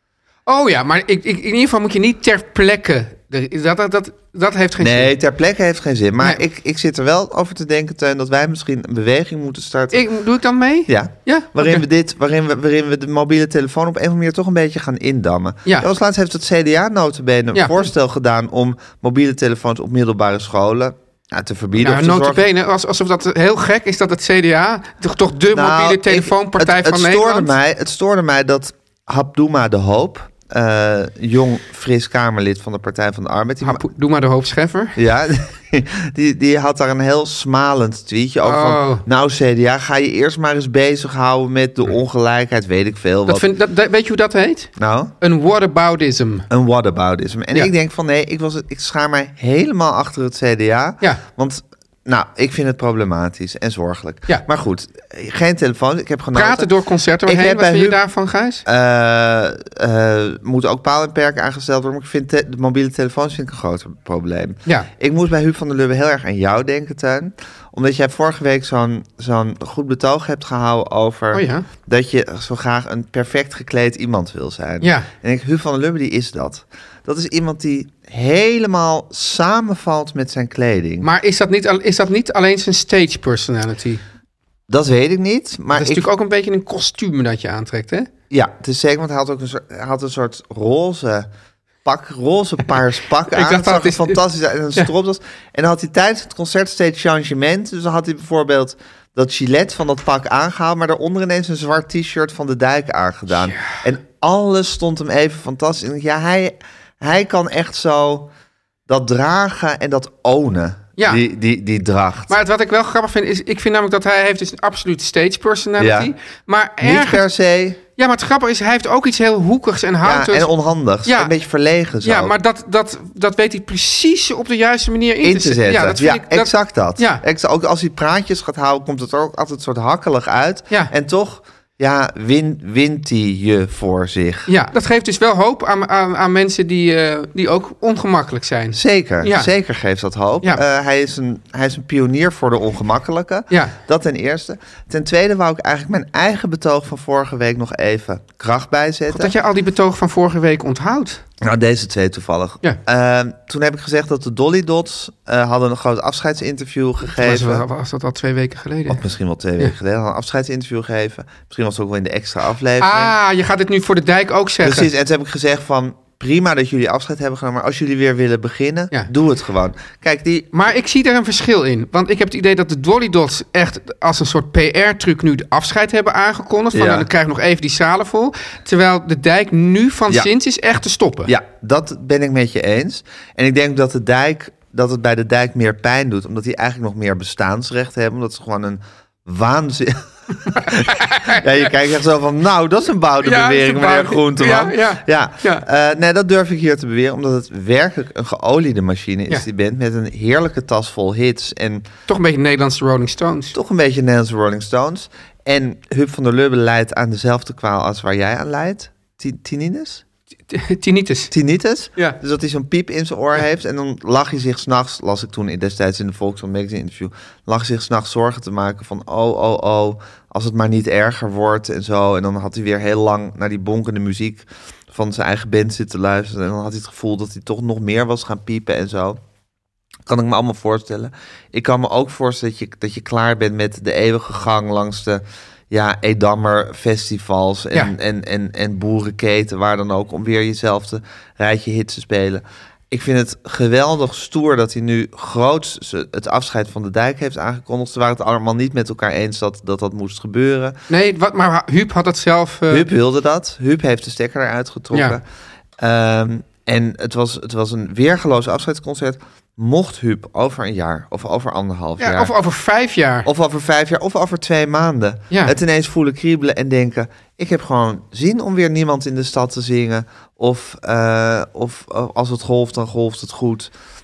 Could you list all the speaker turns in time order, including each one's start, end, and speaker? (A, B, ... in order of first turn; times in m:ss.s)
0:00.4-0:05.1 A
0:04.8-0:10.0 B
0:09.9-0:11.8 A
0:10.9-0:22.4 B
0:17.5-0:17.9 A
0:21.8-0:27.5 A
0:25.5-0:33.8 B
0:33.6-0:35.0 A
0:35.0-0:43.4 B
0:38.4-0:39.0 A
0:43.3-0:46.5 A
0:44.8-0:45.1 B
0:46.5-0:56.7 B
0:56.3-0:58.6 A
0:57.2-0:58.0 B
0:58.6-1:21.1 B
1:11.3-1:11.6 A
1:14.8-1:15.1 A
1:21.0-1:24.0 A
1:24.7-1:26.0 B
1:25.7-1:28.1 A
1:28.3-1:31.3 B
1:31.8-1:48.3 B
1:33.3-1:34.2 A
1:43.3-1:43.8 A
1:48.9-1:52.3 B
1:51.0-1:51.2 A
1:52.3-1:57.2 A
1:55.8-1:56.1 B
1:56.8-1:57.8 B
1:58.0-2:00.5 A
2:00.0-2:02.3 B
2:01.0-2:01.3 A
2:02.0-2:07.2 A
2:05.2-2:14.5 B
2:14.5-2:19.5 A
2:18.7-2:29.3 B
2:23.5-2:23.7 A
2:29.1-2:31.2 A
2:31.4-2:37.6 B
2:37.1-2:39.0 A
2:38.9-2:43.1 B
2:42.8-2:44.9 A
2:44.6-2:50.5 B
2:50.5-3:01.3 A
2:56.7-2:57.1 B
3:01.2-3:21.8 B
3:10.5-3:11.4 A
3:13.2-3:15.6 A
3:22.1-3:23.5 A
3:23.5-3:30.0 B
3:30.5-3:31.3 A
3:31.3-3:49.2 B
3:50.0-4:10.8 B
4:10.9-4:12.9 A
4:12.7-4:15.2 B
4:14.9-4:15.2 A
4:15.8-4:22.3 B
4:22.0-4:23.3 A
4:23.2-4:33.7 B